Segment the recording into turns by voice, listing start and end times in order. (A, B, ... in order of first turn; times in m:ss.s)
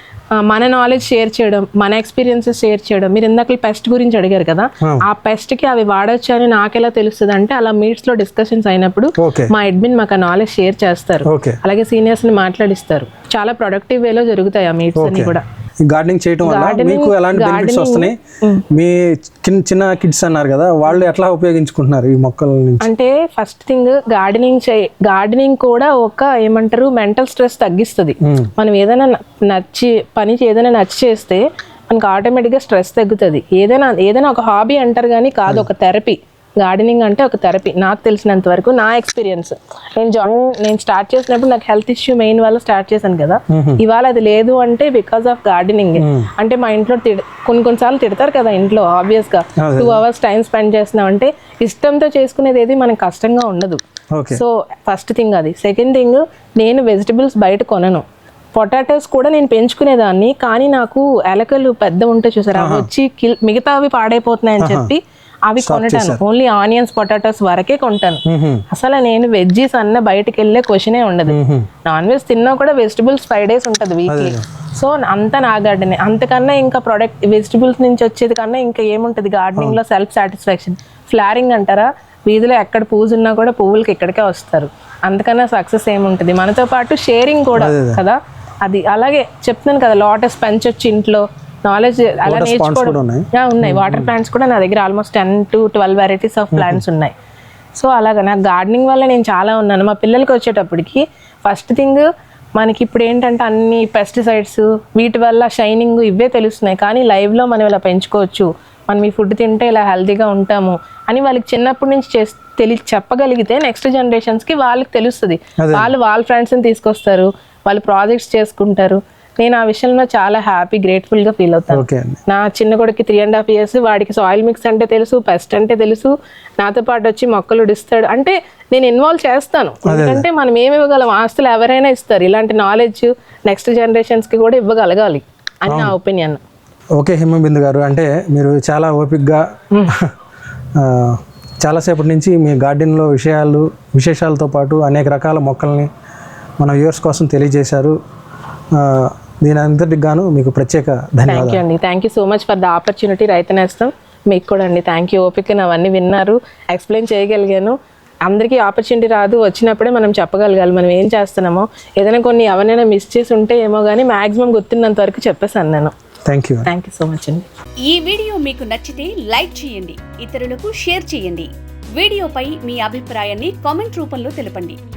0:00.4-0:15.4 A
0:09.2-0:09.5 B
0:11.3-0:11.6 B
0:15.0-0:18.2 B
0:16.4-0:18.6 A
0:18.7-0:22.9 B
0:22.8-0:53.8 A
0:28.2-0:28.5 B
0:43.5-0:43.8 B
0:46.0-0:46.3 B
0:49.6-0:50.0 B
0:54.1-0:54.4 B
0:54.3-0:58.0 A
0:58.6-1:37.1 A
1:02.6-1:02.9 B
1:04.6-1:04.9 B
1:05.6-1:06.2 B
1:08.3-1:08.6 B
1:11.3-1:11.7 B
1:14.1-1:14.4 B
1:27.6-1:28.0 B
1:32.3-1:34.1 B
1:36.5-1:36.8 B
1:37.8-1:42.1 A
1:42.6-2:16.4 A
1:55.6-1:55.9 B
2:01.7-2:02.2 B
2:09.9-2:10.3 B
2:15.7-2:16.0 B
2:17.0-2:20.1 B
2:20.8-2:25.9 B
2:26.6-2:28.0 B
2:28.7-2:31.6 B
2:31.3-2:37.8 A
2:38.3-2:45.9 A
2:46.3-2:46.7 B
2:46.7-2:47.5 A
2:47.8-2:54.8 C